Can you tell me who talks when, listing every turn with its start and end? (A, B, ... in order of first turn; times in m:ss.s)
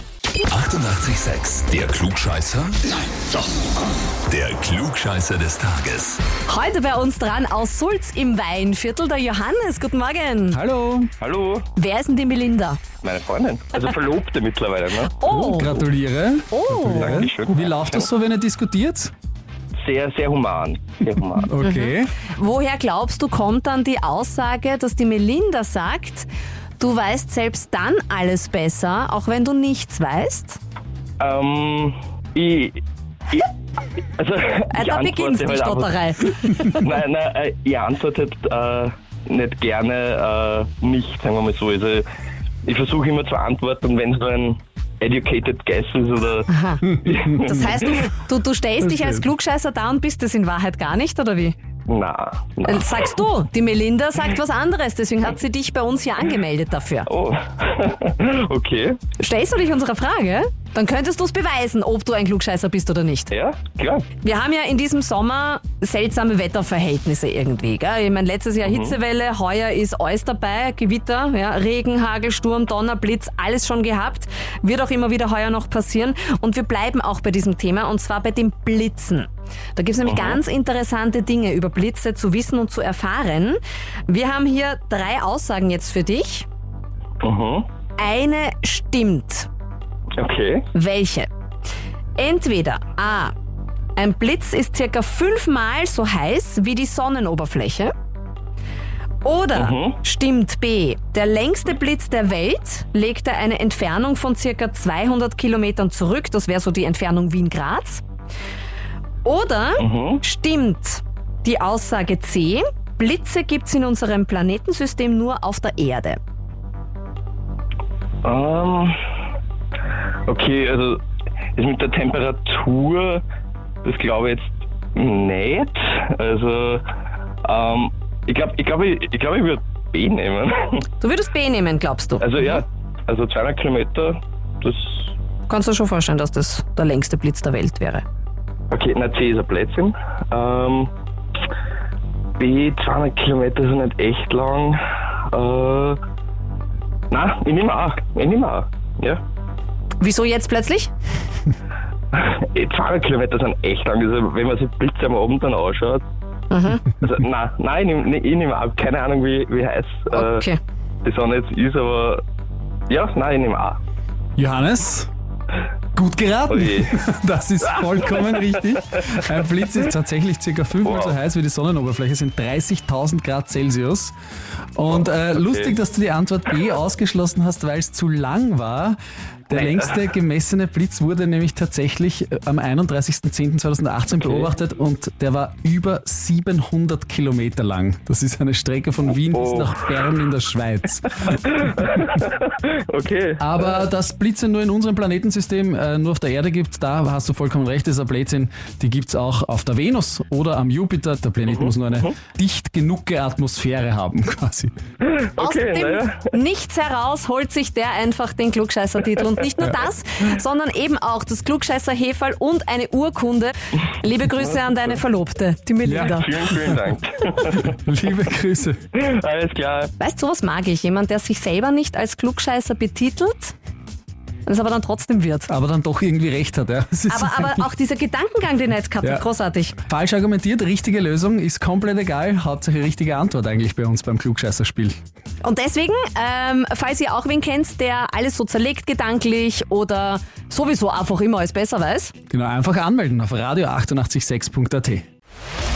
0:00.5-0:03.0 A
0:04.2-0:06.2 A
0:06.4-0:10.6 B
0:10.5-0:11.1 C
0:11.2-0:11.6 D
0:11.8-0:12.8 B
0:13.0-0:15.1 D
0:15.2-0:15.8 B
0:15.2-0:19.1 C
0:16.5-0:17.2 B
0:16.8-0:18.1 D
0:19.8-0:21.5 D
0:21.4-0:22.1 C
0:21.6-0:26.3 B
0:26.8-0:30.6 B
0:31.2-0:33.5 D
0:34.2-0:42.0 D
0:34.7-0:36.8 B
0:42.6-0:46.5 D
0:46.5-0:51.6 B
0:47.0-0:47.9 D
0:51.9-0:53.0 D
0:52.6-0:57.1 B
0:57.1-0:59.0 D
0:59.2-1:03.3 B
1:03.3-1:04.1 D
1:04.2-1:26.4 B
1:08.6-1:09.0 D
1:20.0-1:20.4 D
1:27.2-1:27.6 D
1:28.0-1:29.5 B
1:30.2-1:30.6 D
1:30.7-1:31.3 B
1:32.2-1:33.3 B
1:34.0-1:37.9 B
1:39.2-1:48.0 B
1:39.5-1:40.0 D
1:49.2-1:56.2 B
1:49.8-1:50.2 D
1:58.2-1:59.0 D
2:00.3-2:01.0 D
2:01.6-2:03.2 D
2:03.8-2:06.8 D
2:07.4-2:10.8 D
2:11.0-2:12.6 B
2:12.2-2:15.1 D
2:15.5-2:18.0 B
2:18.7-2:20.9 D
2:22.4-2:24.8 D
2:25.3-2:26.0 D
2:27.1-2:29.2 D
2:30.0-2:30.9 B
2:32.1-2:36.0 D
2:36.5-2:36.8 B
2:37.0-2:40.4 D
2:40.1-2:40.6 B
2:41.0-2:42.2 D
2:42.9-2:43.8 D
2:44.4-2:45.1 C
2:45.9-2:54.1 C
2:46.5-2:47.0 D
2:47.8-2:48.4 D
2:50.8-2:51.2 D
2:54.8-2:59.0 C
2:54.9-2:55.8 D
2:59.5-3:11.4 C
2:59.5-2:59.9 D
3:04.2-3:04.5 D
3:09.3-3:09.7 D
3:11.5-3:13.8 D
3:13.4-3:24.7 C
3:21.4-3:22.1 D
3:25.0-3:26.2 D
3:25.4-3:36.3 B
3:35.8-3:36.8 C
3:35.9-3:37.8 D
3:37.5-3:38.8 C
3:38.9-3:39.9 D
3:40.0-3:43.5 B
3:44.4-3:45.5 B
3:45.5-3:47.6 C
3:47.1-3:49.8 B
3:49.8-3:55.0 C
3:55.4-4:02.1 B
4:02.3-4:05.0 C